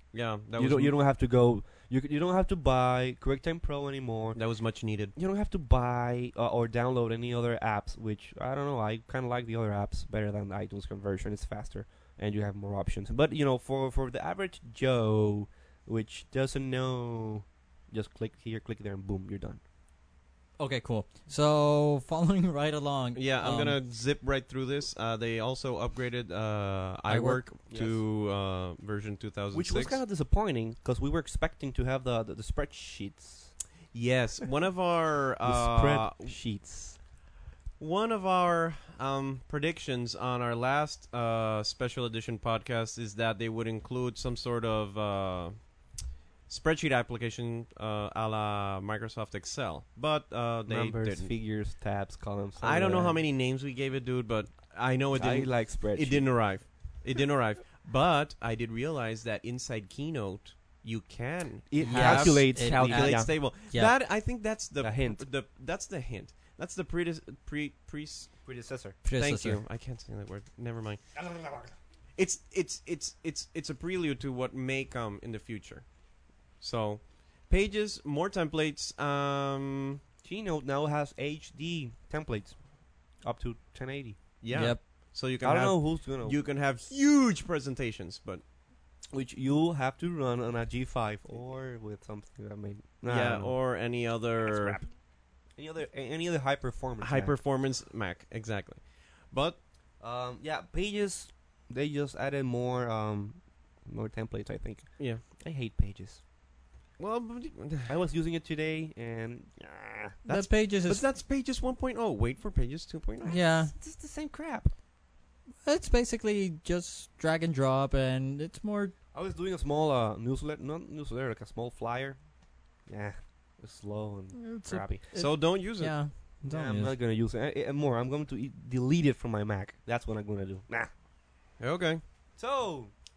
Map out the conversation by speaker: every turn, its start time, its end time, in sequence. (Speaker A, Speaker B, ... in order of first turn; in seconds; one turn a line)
Speaker A: 0.1-0.9
Speaker B: 0.6-4.4
Speaker A: 4.3-5.1
Speaker B: 5.2-19.6
Speaker C: 20.6-23.8
Speaker A: 23.1-30.0
Speaker C: 27.1-27.4
Speaker B: 27.7-28.0
Speaker B: 29.5-33.5
Speaker A: 33.9-36.3
Speaker B: 35.4-37.0
Speaker A: 37.8-45.7
Speaker A: 46.5-51.3
Speaker B: 50.7-53.2
Speaker A: 52.6-68.3
Speaker B: 55.1-56.3
Speaker B: 61.7-63.3
Speaker C: 61.8-63.9
Speaker B: 64.8-65.2
Speaker B: 68.4-69.0
Speaker C: 69.0-69.6
Speaker A: 69.1-71.0
Speaker B: 71.1-71.8
Speaker A: 72.2-75.9
Speaker A: 76.6-80.0
Speaker B: 80.2-82.6
Speaker B: 83.2-84.2
Speaker A: 84.4-88.4
Speaker C: 84.5-84.8
Speaker B: 85.4-86.4
Speaker B: 89.1-93.6
Speaker A: 93.1-94.8
Speaker B: 94.4-94.9
Speaker B: 95.6-97.4
Speaker A: 97.0-99.6
Speaker B: 100.0-106.2
Speaker A: 107.0-107.9
Speaker B: 107.9-110.2
Speaker C: 110.3-111.0
Speaker A: 110.3-113.4
Speaker B: 113.2-114.7
Speaker C: 113.3-113.7
Speaker C: 115.6-118.9
Speaker B: 119.1-122.2
Speaker B: 122.9-125.0
Speaker C: 124.3-126.9
Speaker A: 125.1-126.0
Speaker B: 126.4-130.9
Speaker A: 131.6-132.0
Speaker B: 132.4-132.9